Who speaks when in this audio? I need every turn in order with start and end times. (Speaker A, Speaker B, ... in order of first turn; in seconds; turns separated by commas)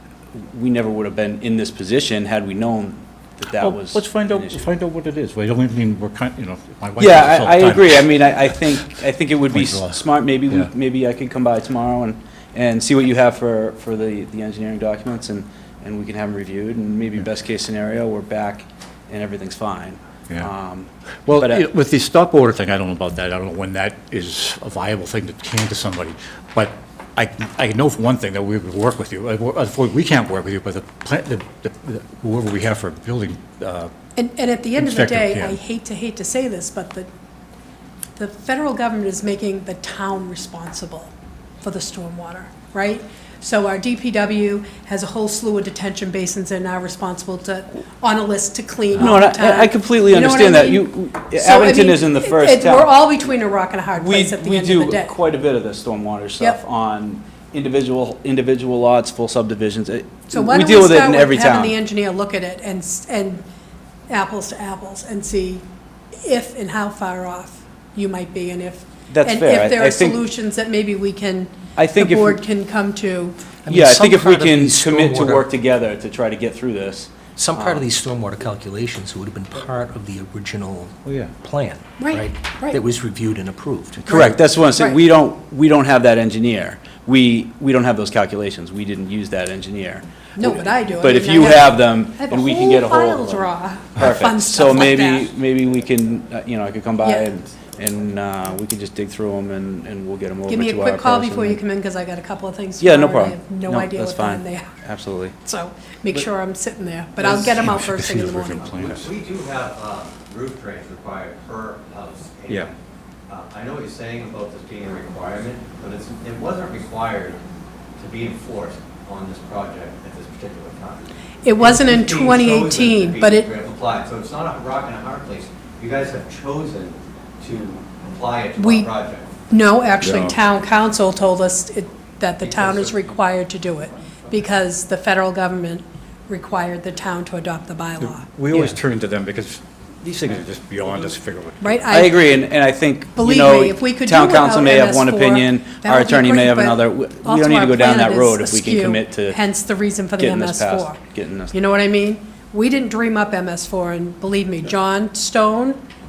Speaker A: 0.4-4.7, Speaker B: 3.5-8.5, Speaker A: 7.0-21.7, Speaker B: 9.5-10.7, Speaker B: 21.3-33.9, Speaker C: 34.2-37.1, Speaker B: 34.8-35.6, Speaker C: 38.2-55.2, Speaker A: 49.0-52.9, Speaker A: 53.9-61.8, Speaker C: 60.3-63.4, Speaker C: 64.1-65.7, Speaker C: 66.2-73.4, Speaker A: 69.1-70.2, Speaker A: 71.8-72.4, Speaker D: 73.7-75.5, Speaker A: 73.7-77.9, Speaker D: 77.4-84.2, Speaker B: 81.1-81.3, Speaker C: 82.0-82.8, Speaker A: 84.0-101.6, Speaker C: 84.1-85.0, Speaker C: 90.3-95.3, Speaker C: 97.0-97.3, Speaker C: 100.5-104.7, Speaker A: 102.8-105.3, Speaker C: 105.4-108.7, Speaker B: 107.2-109.2, Speaker E: 108.6-112.7, Speaker E: 113.3-117.4, Speaker E: 118.0-129.3, Speaker C: 121.4-123.5, Speaker C: 128.6-128.9, Speaker C: 129.5-138.3, Speaker B: 130.0-130.4, Speaker E: 132.4-133.1, Speaker B: 138.0-141.8, Speaker C: 141.6-142.2, Speaker A: 141.9-149.4, Speaker C: 143.2-151.0, Speaker A: 150.2-151.6, Speaker C: 151.5-155.8